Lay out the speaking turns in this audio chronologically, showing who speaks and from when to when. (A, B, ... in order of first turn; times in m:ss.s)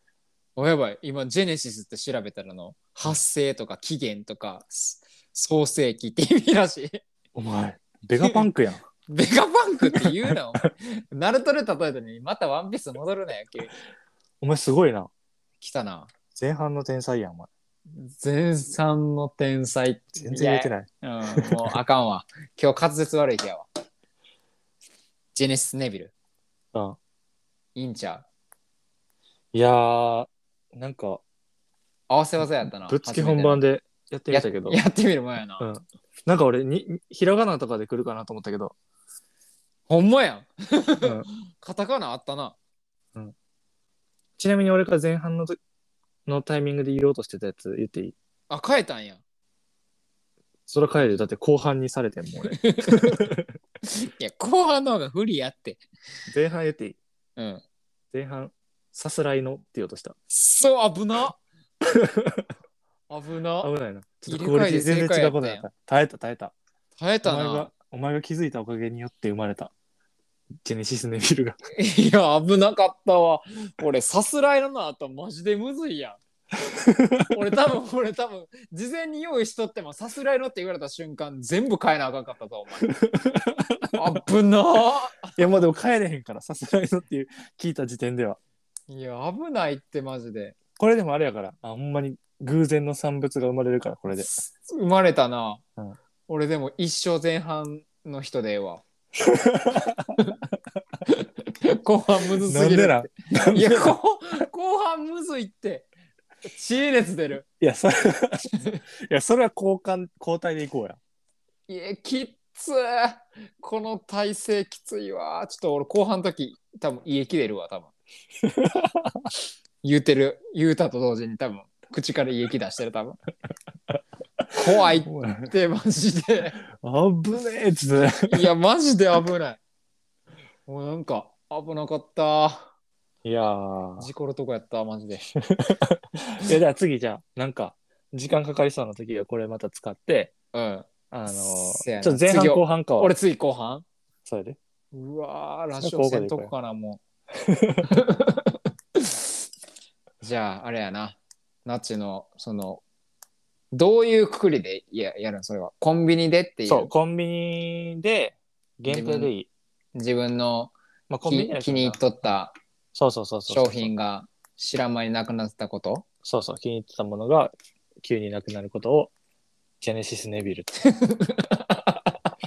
0:00.6-0:07.0 A
0:07.3-0:08.8 B
0:09.1-0:13.7 A
0:09.9-0:10.3 B
0:14.4-0:15.1 B
0:15.6-0:16.1 A
0:16.4-0:17.5 B
0:17.9-0:23.6 A
0:20.2-0:21.5 B
0:25.3-0:26.1 A
0:27.7-0:28.2 A
0:29.5-0:31.2 B
0:32.1-0:33.6 A
0:32.4-0:34.8 B
0:34.3-0:35.7 A
0:35.6-0:38.7 B
0:39.9-0:42.6 A
0:41.0-0:41.3 B
0:44.4-0:45.6 B
0:46.2-0:48.1 B
0:48.5-0:49.2 A
0:50.7-0:53.4 B
0:52.6-0:53.3 A
0:53.8-0:55.8 A
0:56.3-0:57.0 B
0:57.4-0:57.6 A
0:58.1-1:00.2 B
1:00.3-1:01.4 A
1:01.9-1:02.5 B
1:03.1-1:03.7 A
1:03.6-1:06.5 B
1:04.3-1:05.6 A
1:07.0-1:07.7 A
1:07.2-1:09.7 B
1:10.6-1:11.6 B
1:11.8-1:16.2 A
1:16.8-1:17.4 B
1:17.3-1:22.9 A
1:22.9-1:23.9 B
1:23.9-1:25.6 A
1:25.4-1:28.4 B
1:28.9-1:30.5 A
1:30.8-1:34.3 B
1:34.1-1:35.6 A
1:36.3-1:38.8 A
1:39.2-1:40.2 B
1:41.8-1:45.9 A
1:42.5-1:44.0 B
1:46.4-1:47.4 A
1:47.6-1:48.5 B
1:49.1-1:51.0 B
1:51.7-1:57.9 A
1:58.4-1:59.2 B
1:59.8-2:03.2 A
2:04.5-2:06.6 A
2:05.0-2:05.5 B
2:06.8-2:08.5 B
2:08.2-2:09.6 A
2:10.7-2:12.7 A
2:13.2-2:14.1 B
2:14.0-2:15.2 A
2:15.4-2:20.3 B
2:20.5-2:23.8 A
2:21.1-2:23.1 B
2:24.2-2:24.6 B
2:24.9-2:27.0 A
2:25.8-2:26.5 B
2:27.4-2:27.9 B
2:27.9-2:29.3 A
2:30.2-2:32.8 A
2:33.7-2:36.9 A
2:36.6-2:39.5 B
2:38.9-2:39.3 A
2:39.9-2:40.7 A
2:41.1-2:42.0 B
2:41.2-2:42.6 A
2:42.9-2:43.9 B
2:43.5-2:46.0 A
2:46.2-2:49.1 B
2:49.8-2:50.7 B
2:51.0-2:52.0 A